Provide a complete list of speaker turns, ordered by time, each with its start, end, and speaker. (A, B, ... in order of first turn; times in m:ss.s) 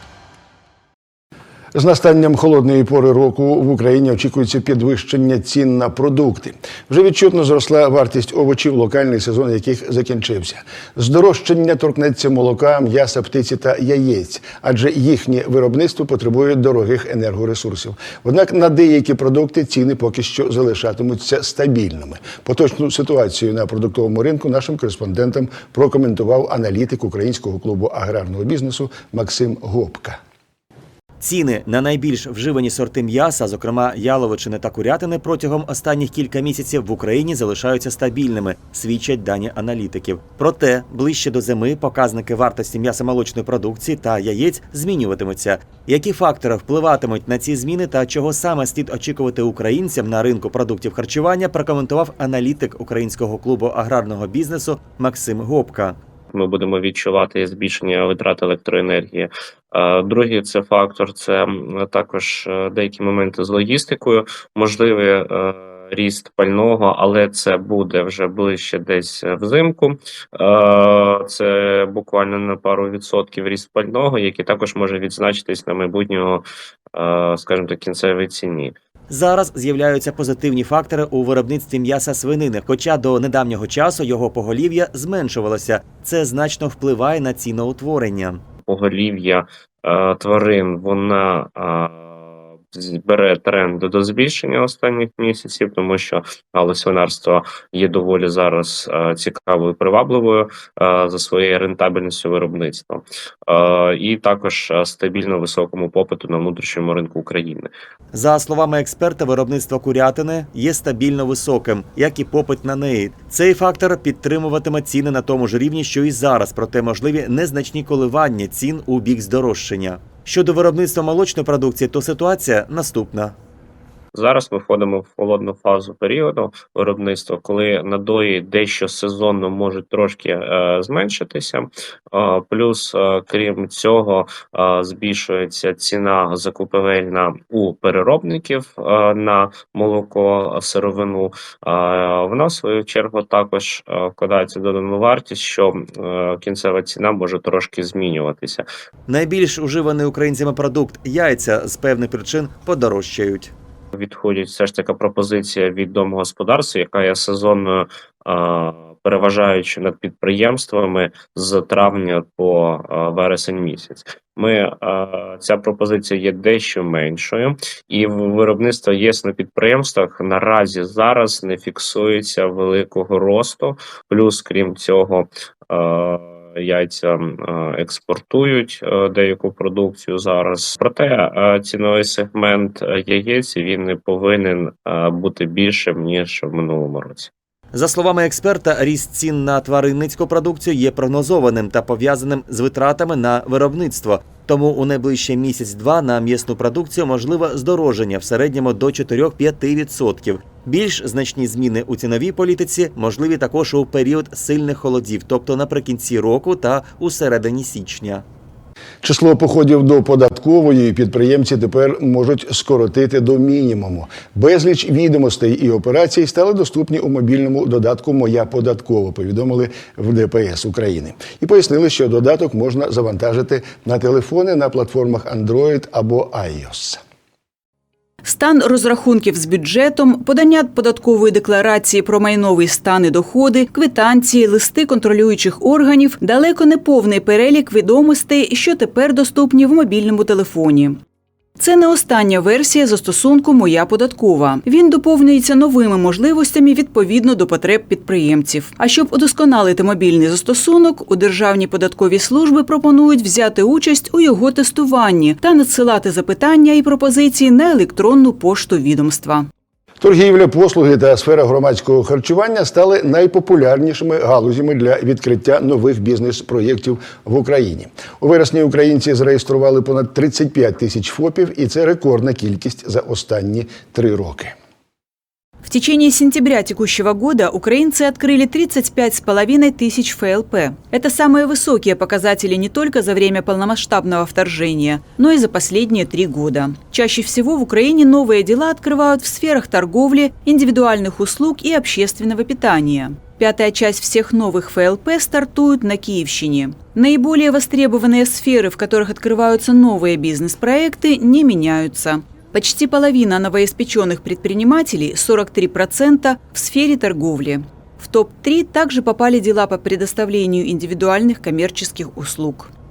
0:01.7-0:30.2 A
0:31.2-0:56.0 B
0:56.3-1:18.7 C
1:19.1-1:28.4 B
1:28.6-1:47.7 C
1:48.1-2:03.3 B
2:04.1-2:28.6 C
2:29.1-2:33.5 B
2:33.9-3:07.3 C
3:07.7-3:28.2 B
3:29.0-3:47.0 A
3:48.2-4:01.0 D
4:01.6-4:19.5 D
4:20.0-4:34.5 A
4:35.6-5:12.7 D